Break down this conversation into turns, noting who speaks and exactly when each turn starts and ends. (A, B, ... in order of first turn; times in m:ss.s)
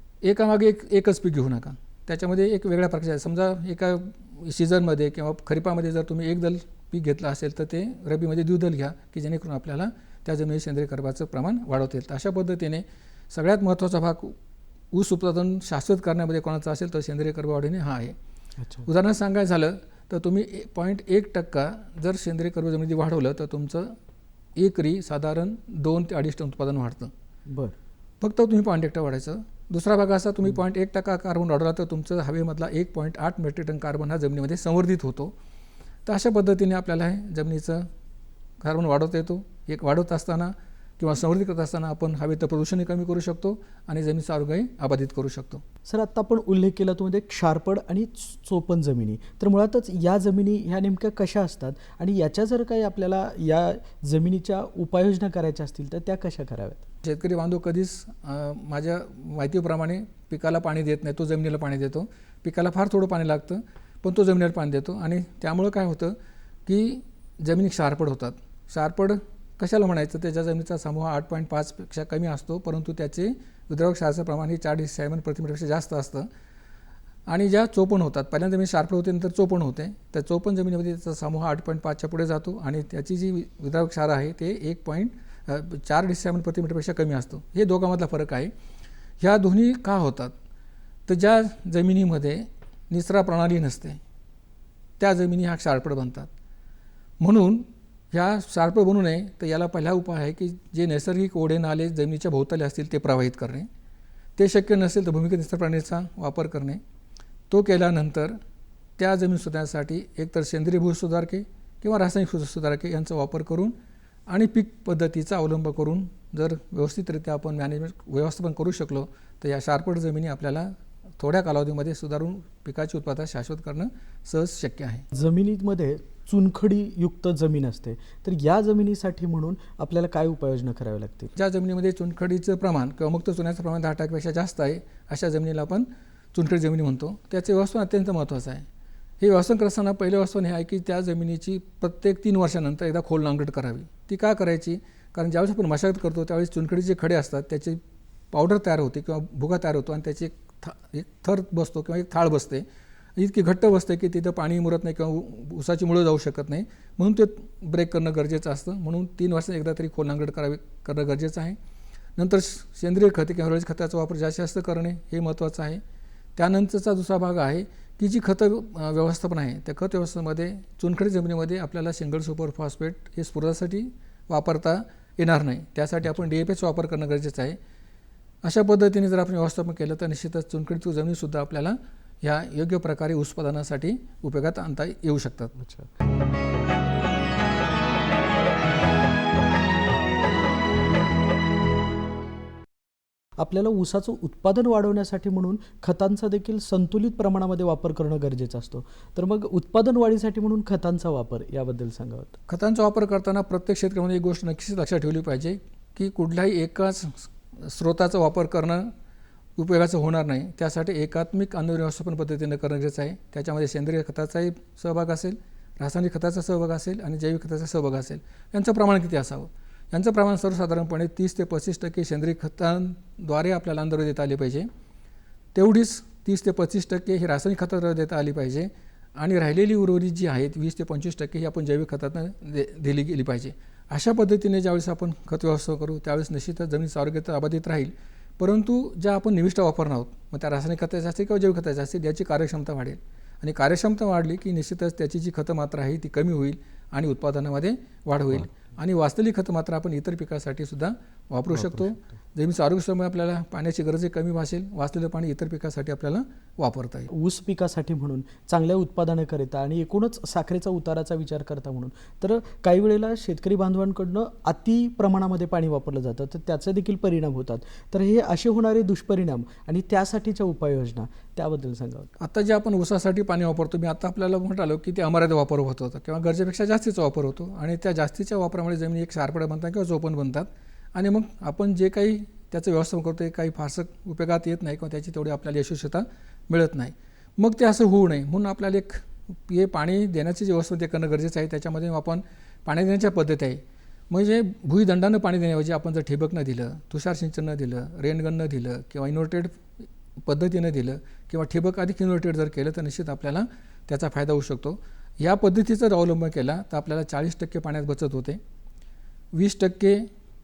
0:00.2-0:14.4 A
0:14.9-0:18.2 A
0:18.6-0:18.9 B
0:18.8-0:23.9 A
0:24.6-0:27.1 A
0:27.5-0:27.8 B
0:28.2-0:35.3 A
0:36.0-0:37.9 A
0:38.6-0:45.6 A
0:45.8-0:56.8 B
0:57.0-1:06.1 A
1:06.6-1:16.3 A
1:17.2-1:28.5 A
1:29.2-1:30.3 A
1:31.1-1:34.0 A
1:35.0-1:36.3 A
1:37.2-1:43.7 A
1:44.4-1:46.8 A
1:47.5-1:48.4 A
1:49.0-1:53.7 A
1:54.3-2:05.0 A
2:05.1-2:11.3 B
2:11.4-2:18.7 A
2:19.2-2:27.8 A
2:28.3-2:32.6 A
2:33.2-2:41.6 A
2:42.2-2:45.8 A
2:46.4-2:57.6 A
2:58.4-3:05.5 A
3:05.6-3:05.9 B
3:13.4-3:22.4 B
3:22.5-3:28.9 A
3:29.6-3:44.7 A
3:45.5-4:17.1 A
4:17.1-4:32.1 B
4:32.2-4:59.7 A
5:00.2-5:08.4 A
5:09.3-5:10.1 A